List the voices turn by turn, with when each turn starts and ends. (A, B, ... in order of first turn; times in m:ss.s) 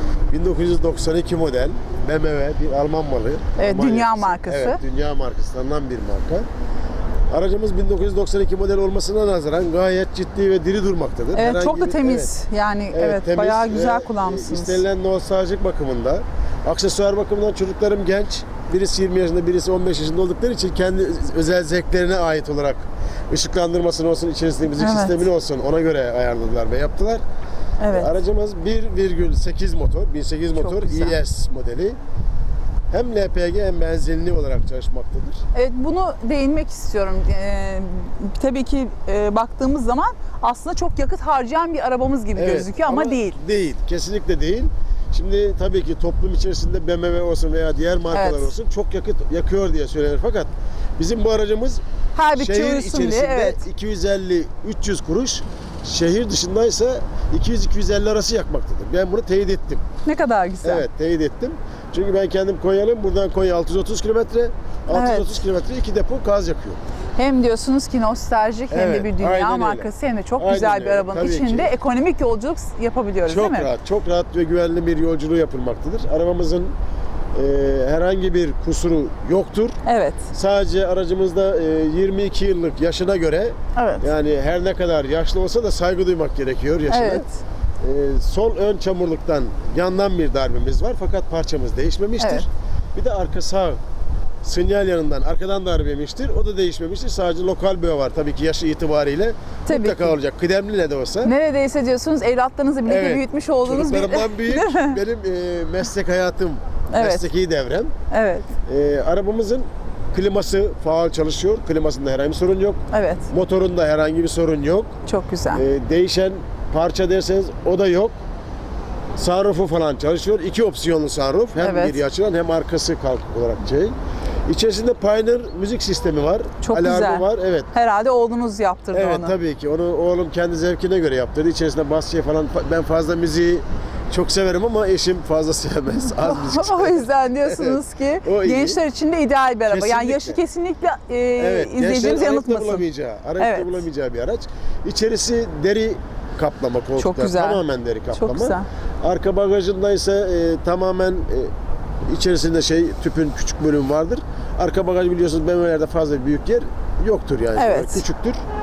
0:00.3-0:06.4 A
0:03.6-0:04.8 B
0:07.3-0:12.3 A
0:11.3-0:14.8 B
0:12.9-0:27.2 A
0:24.8-0:25.2 B
0:27.8-0:28.1 B
0:27.9-0:32.0 A
0:30.6-0:31.2 B
0:32.9-0:35.4 A
0:35.6-0:43.4 B
0:42.4-0:51.8 A
0:48.1-0:48.5 B
0:52.2-0:53.6 B
0:52.4-0:59.8 A
1:00.0-1:00.8 B
1:00.6-1:06.8 A
1:04.9-1:05.4 B
1:07.2-1:13.7 B
1:08.7-1:11.7 A
1:13.3-1:16.7 A
1:17.4-1:19.8 A
1:19.8-1:20.2 B
1:20.3-1:27.2 A
1:23.8-1:24.1 B
1:26.9-1:27.3 B
1:27.8-1:33.8 A
1:32.2-1:32.4 B
1:34.4-1:41.3 A
1:39.7-1:40.2 B
1:41.2-1:45.0 B
1:42.9-1:47.9 A
1:46.9-1:47.3 B
1:48.1-1:48.5 B
1:48.6-1:54.9 A
1:52.9-1:53.3 B
1:55.1-1:55.6 B
1:55.5-1:58.2 A
1:59.2-2:03.9 A
2:01.6-2:02.0 B
2:04.5-2:07.7 A
2:06.6-2:09.4 B
2:08.9-2:18.8 A
2:16.0-2:22.8 B
2:19.7-2:20.4 A
2:21.4-2:31.5 A
2:23.4-2:23.8 B
2:27.0-2:27.6 B
2:28.1-2:28.7 B
2:32.1-2:38.4 A
2:37.6-2:38.0 B